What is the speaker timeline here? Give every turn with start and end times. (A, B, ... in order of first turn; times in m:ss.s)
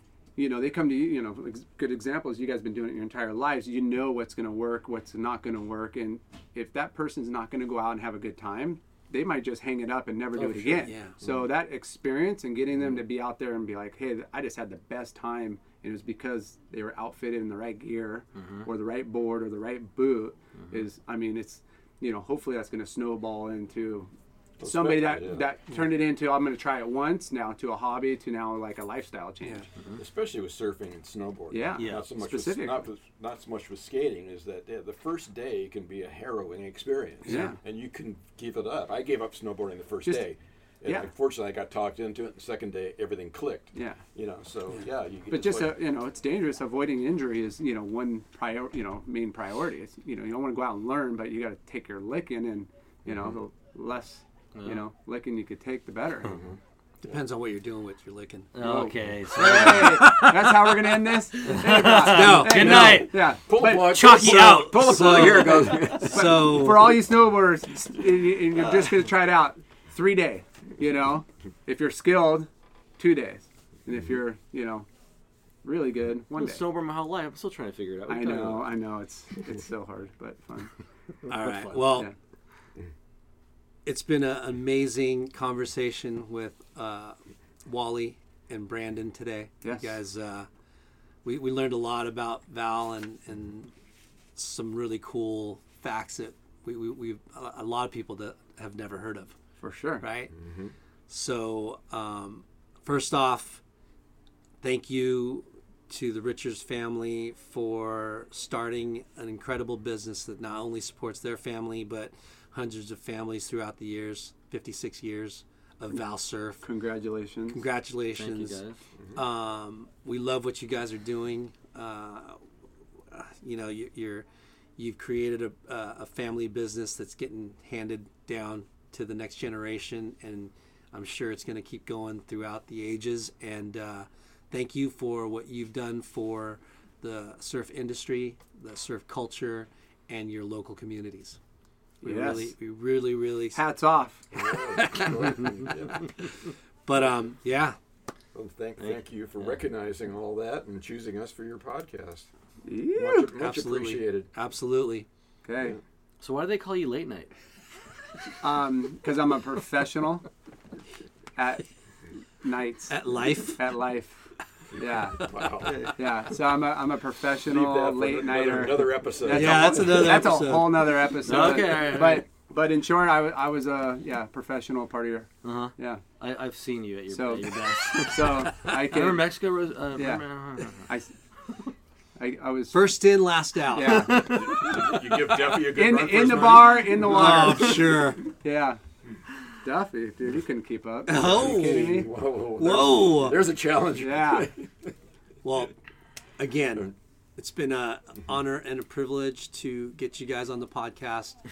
0:00.4-0:29.7 A
0:10.4-0:10.9 B
0:10.8-0:11.2 C
0:18.4-0:18.7 B
0:20.6-0:20.8 B
0:24.6-0:25.5 D
0:30.0-0:45.8 D
0:31.5-0:32.8 A
0:31.8-0:32.0 B
0:37.3-0:37.6 C
0:37.3-0:37.6 A
0:40.8-0:41.1 A
0:43.7-0:44.0 A
0:45.3-0:56.4 A
0:54.5-0:54.8 B
0:57.0-0:58.5 C
0:58.5-1:05.6 B
0:58.6-1:04.1 A
1:01.9-1:03.0 C
1:02.5-1:06.6 D
1:03.9-1:07.0 C
1:05.6-1:14.9 A
1:15.6-1:16.6 A
1:16.4-1:18.7 B
1:18.1-1:20.7 A
1:21.3-1:22.1 C
1:21.4-1:22.1 B
1:23.8-1:30.5 C
1:29.6-1:30.0 A
1:31.2-1:33.7 C
1:34.4-1:39.3 C
1:39.6-1:40.0 A
1:40.0-1:40.3 C
1:40.3-1:40.7 D
1:41.1-1:43.6 C
1:44.6-1:56.6 C
1:56.6-1:57.6 A
1:57.5-1:58.6 C
1:58.1-1:58.8 B
1:59.1-2:02.4 C
2:03.1-2:21.4 C
2:22.0-2:22.5 A
2:22.0-2:23.6 C
2:23.5-2:24.3 A
2:24.3-2:26.2 D
2:24.3-2:25.4 C
2:26.8-2:27.8 C
2:28.3-2:32.3 D
2:28.8-2:29.6 B
2:32.6-2:33.3 A
2:32.9-2:34.3 D
2:33.4-2:35.1 C
2:35.4-2:35.8 A
2:36.2-2:37.3 B
2:38.4-2:40.3 A
2:41.4-2:41.7 A
2:42.4-2:45.3 A
2:42.9-2:43.6 C
2:44.8-2:45.9 D
2:45.9-2:56.0 A
2:47.4-2:50.3 D
2:49.3-2:51.0 C
2:51.2-2:52.3 B
2:55.4-3:00.9 B
2:57.1-2:59.2 A
3:00.0-3:00.2 A
3:00.7-3:01.1 A
3:02.2-3:02.9 A
3:02.7-3:04.1 C
3:03.7-3:04.4 A
3:03.8-3:04.9 B
3:04.1-3:07.5 D
3:05.7-3:08.8 A
3:07.0-3:08.2 C
3:09.6-3:12.1 A
3:11.1-3:12.0 C
3:11.1-3:14.7 D
3:12.6-3:13.4 C
3:14.0-3:14.5 A
3:15.4-3:15.7 C
3:16.4-3:21.4 C